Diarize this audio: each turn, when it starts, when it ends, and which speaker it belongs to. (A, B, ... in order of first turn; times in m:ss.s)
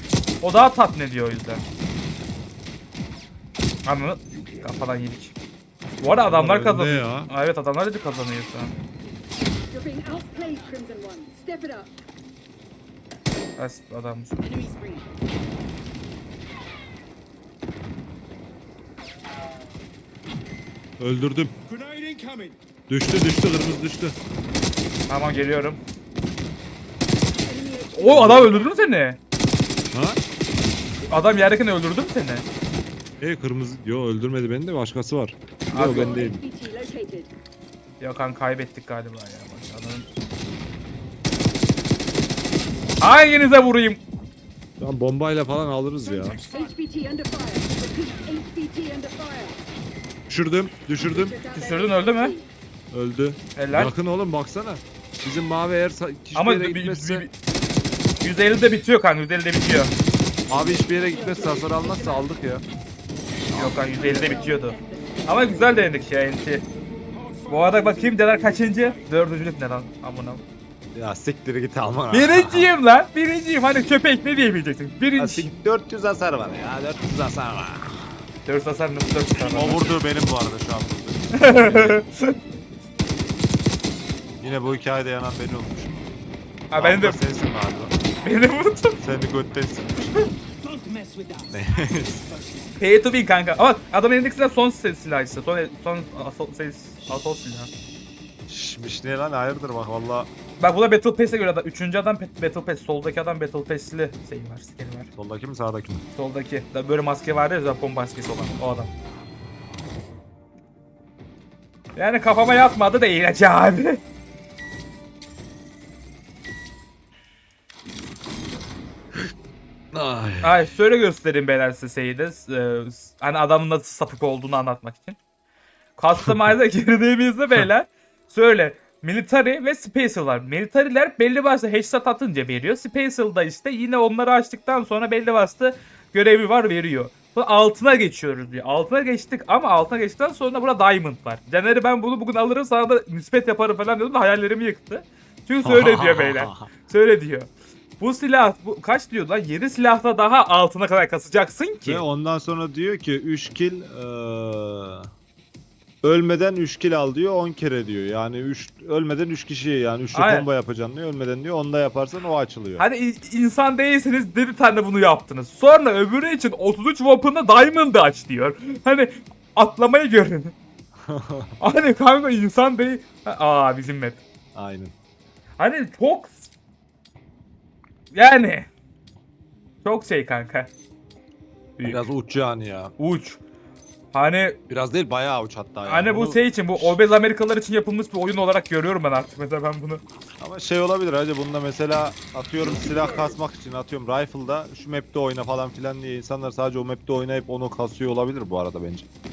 0:00.4-0:01.6 A
0:03.8-0:05.3 A
0:06.0-0:08.8 A
0:06.1-0:07.3 B
0:09.7-0:11.9 C
0:13.6-0:14.4 A
0:14.5-0:15.0 D
0:21.0-0:21.5 B
0:21.7-0:22.6 D
0:22.9-0:24.1 B
0:25.1-0:25.8 A
0:27.4-0:28.9 C
0:27.9-0:29.2 A
0:28.1-0:28.5 B
0:29.9-0:30.2 B
0:31.1-0:32.4 A
0:33.2-0:36.4 B
0:35.7-0:36.4 A
0:35.8-0:37.3 C
0:38.0-0:40.0 A
0:43.0-0:44.0 A
0:44.8-0:46.4 B
0:45.9-0:46.8 D
0:46.5-0:49.6 C
0:50.3-0:51.4 B
0:51.0-0:52.5 C
0:51.5-0:52.3 A
0:52.9-0:57.3 B
0:53.6-0:53.9 A
0:56.3-0:57.3 A
0:58.2-0:59.9 A
1:00.5-1:02.6 B
1:00.5-1:02.2 C
1:03.5-1:04.1 B
1:03.5-1:06.6 A
1:03.8-1:05.6 C
1:07.1-1:09.1 D
1:07.5-1:10.4 A
1:10.9-1:12.7 B
1:12.1-1:15.5 A
1:15.2-1:18.1 B
1:18.4-1:19.9 A
1:19.4-1:22.0 B
1:21.3-1:22.4 A
1:24.4-1:26.1 B
1:26.7-1:27.2 A
1:26.7-1:27.9 B
1:28.2-1:29.0 A
1:29.0-1:30.3 B
1:30.6-1:33.1 D
1:31.5-1:32.2 B
1:32.8-1:37.7 A
1:38.5-1:40.3 B
1:40.6-1:45.1 A
1:45.1-1:46.0 B
1:46.1-1:48.9 A
1:52.0-1:54.0 A
1:59.9-2:00.6 B
2:00.4-2:05.2 A
2:06.0-2:32.0 A
2:25.6-2:26.7 B
2:31.8-2:35.1 B
2:36.0-2:42.8 B
2:40.1-2:40.5 A
2:42.8-2:50.5 A
2:51.0-2:51.5 B
2:51.6-2:54.2 A
2:54.5-2:54.9 B
2:55.6-2:56.5 A
2:58.1-2:58.7 A
2:59.8-3:00.7 A
3:01.8-3:02.1 A
3:01.8-3:02.9 B
3:03.0-3:03.4 A
3:04.1-3:04.6 A
3:04.7-3:07.0 B
3:05.8-3:10.0 A
3:10.4-3:19.0 B